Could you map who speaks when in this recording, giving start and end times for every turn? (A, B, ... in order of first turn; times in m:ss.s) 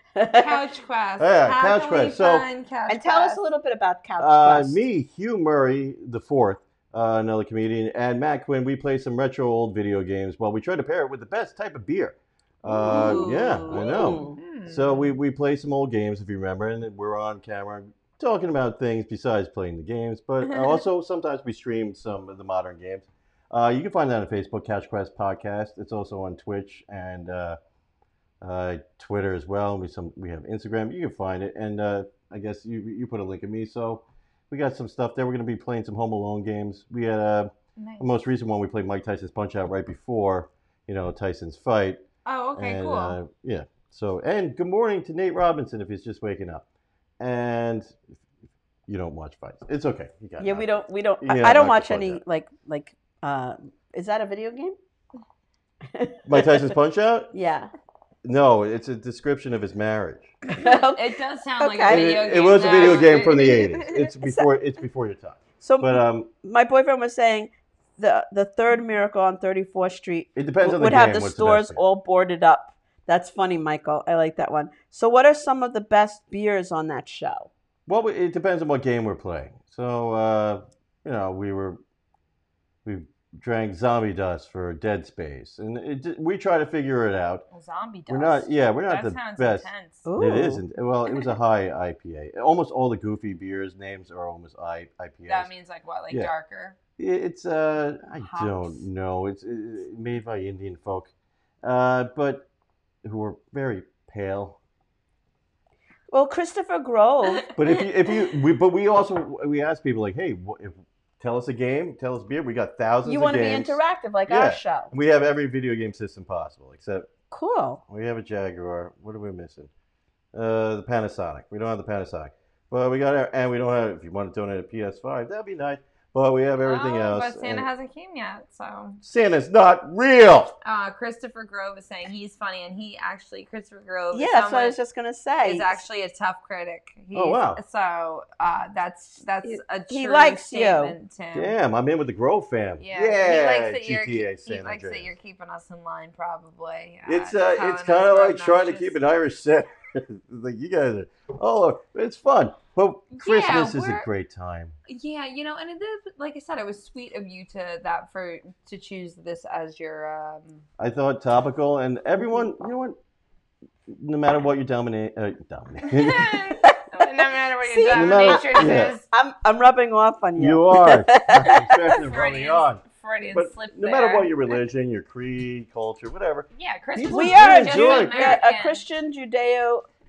0:00.2-0:00.6 A
0:00.4-0:03.4 B
0:01.2-0:02.5 C
0:02.9-0:04.8 A
0:04.2-0:27.6 C
0:12.7-0:14.4 A
0:12.8-0:15.2 B
0:20.4-0:20.8 B
0:28.4-0:42.0 C
0:37.8-0:38.1 B
0:42.2-0:43.2 B
0:42.6-0:46.6 C
0:47.2-0:48.0 C
0:48.9-0:52.2 C
0:50.4-0:54.8 A
0:55.9-0:56.7 A
0:56.3-0:57.3 C
0:57.3-0:57.7 A
0:58.2-1:00.4 C
1:00.6-1:03.5 A
1:00.6-1:04.0 B
1:01.9-1:06.3 C
1:04.2-1:04.5 A
1:05.6-1:17.5 A
1:10.4-1:11.8 C
1:17.9-1:21.8 C
1:22.8-1:27.4 C
1:27.5-1:30.1 B
1:28.1-1:35.5 C
1:30.1-1:30.6 A
1:35.2-1:36.8 B
1:37.0-1:41.1 C
1:38.2-1:38.8 B
1:41.6-1:42.5 C
1:43.0-1:44.6 C
1:46.1-1:47.5 A
1:47.5-1:57.1 C
1:53.0-1:54.9 A
1:57.3-1:57.8 A
1:57.9-1:59.7 C
2:00.3-2:07.7 C
2:06.6-2:09.0 B
2:09.0-2:10.6 C
2:10.6-2:14.8 B
2:14.1-2:15.8 A
2:15.4-2:21.5 B
2:17.1-2:17.6 C
2:19.4-2:21.0 A
2:21.3-2:25.1 C
2:22.8-2:29.0 B
2:27.1-2:34.7 C
2:33.1-2:34.1 B
2:34.9-2:40.6 B
2:40.8-2:43.0 C
2:43.9-2:46.4 C
2:45.8-2:49.1 B
2:47.6-2:52.0 A
2:47.9-2:49.0 C
2:50.4-2:58.4 C
2:51.9-2:54.6 B
2:56.5-2:58.8 B
2:57.0-2:59.8 A